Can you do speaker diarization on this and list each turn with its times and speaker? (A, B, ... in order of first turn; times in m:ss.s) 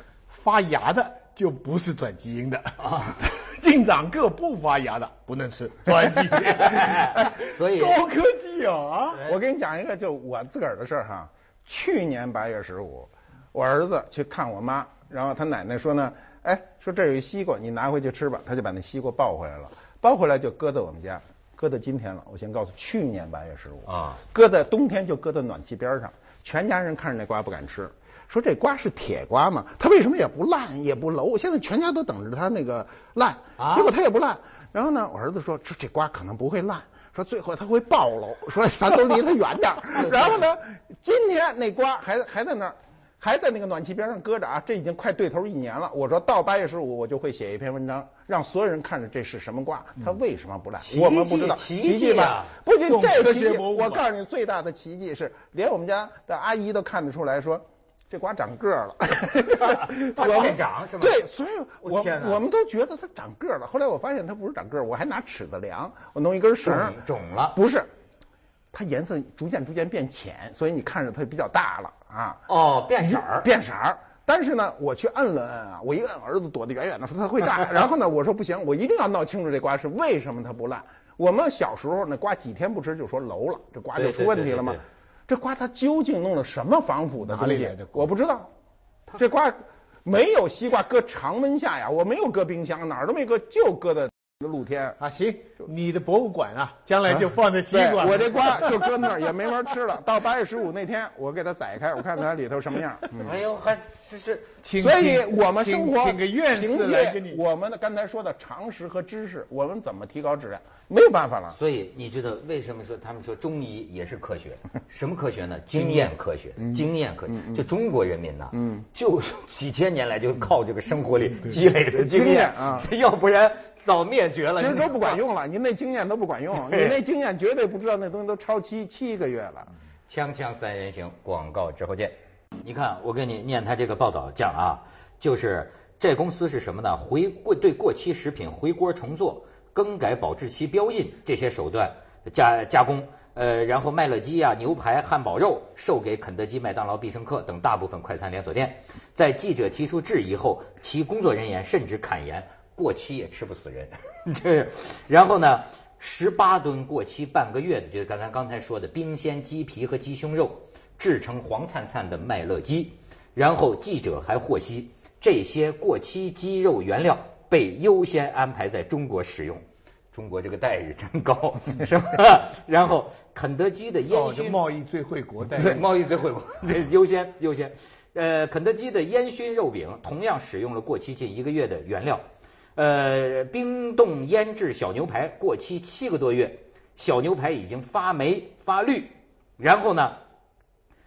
0:00.3-0:09.2 A
0:02.8-0:03.2 B
0:06.3-0:08.0 B
0:09.2-1:07.0 C
0:23.9-0:24.2 B
0:33.6-0:33.9 B
0:40.0-0:40.4 B
0:50.8-0:52.5 B
0:52.8-0:54.1 A
0:59.6-1:01.2 B
1:01.8-1:02.4 B
1:06.6-1:07.6 B
1:07.5-1:07.9 C
1:08.7-1:12.4 C
1:12.5-1:13.5 B
1:13.0-1:28.5 C
1:24.0-1:24.8 B
1:27.2-1:28.1 A
1:29.1-1:35.0 C
1:35.0-1:39.0 A
1:37.7-1:43.4 C
1:43.2-1:44.5 B
1:44.6-1:47.4 A
1:44.8-1:51.6 C
1:51.6-2:05.2 B
1:55.8-1:57.7 C
1:58.5-1:58.8 C
2:01.8-2:02.9 C
2:04.6-2:09.7 C
2:06.6-2:07.0 B
2:10.1-2:54.6 B
2:54.1-2:55.8 A
2:55.6-3:02.2 B
3:02.8-3:10.2 B